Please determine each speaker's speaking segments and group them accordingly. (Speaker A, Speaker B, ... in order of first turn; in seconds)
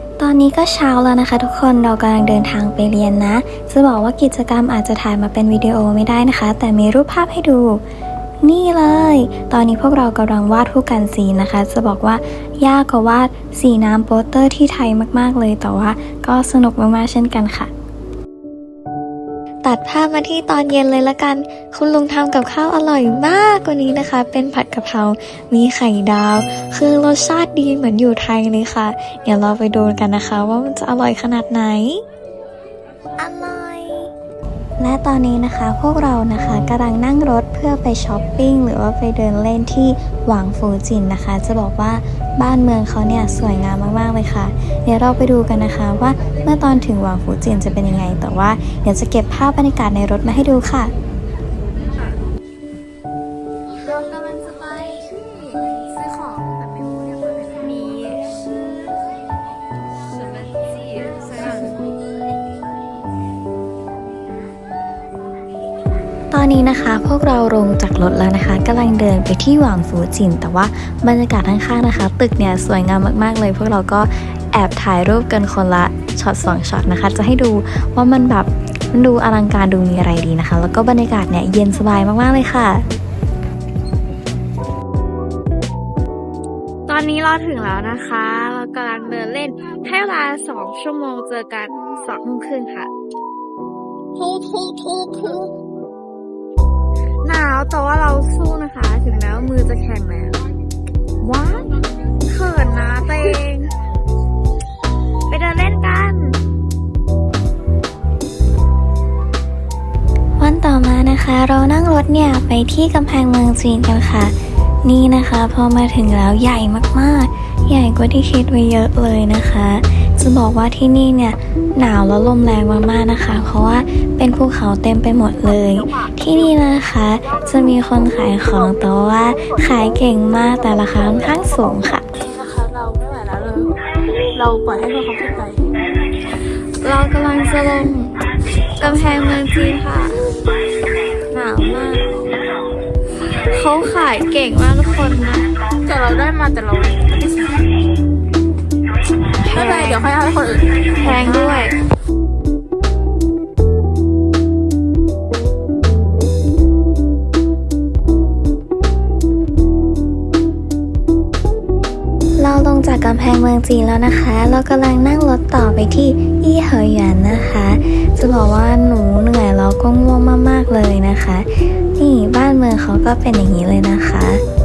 Speaker A: 0.2-7.8, 8.4-17.7, 19.6-32.0, 33.2-34.1, 34.8-50.9, 66.3-82.8, 110.4-114.3, 114.8-132.1, 162.4-174.4
Speaker B: 54.1-54.9, 56.0-57.6, 132.2-133.8, 134.3-135.7, 145.8-147.6, 149.4-151.7
Speaker C: 57.6-58.2, 86.9-92.9, 94.2-95.5, 97.2-100.4, 101.2-103.8, 105.3-106.4, 136.8-138.2, 138.8-140.2, 141.3-142.0, 143.5-145.5, 149.4-150.1, 151.0-151.8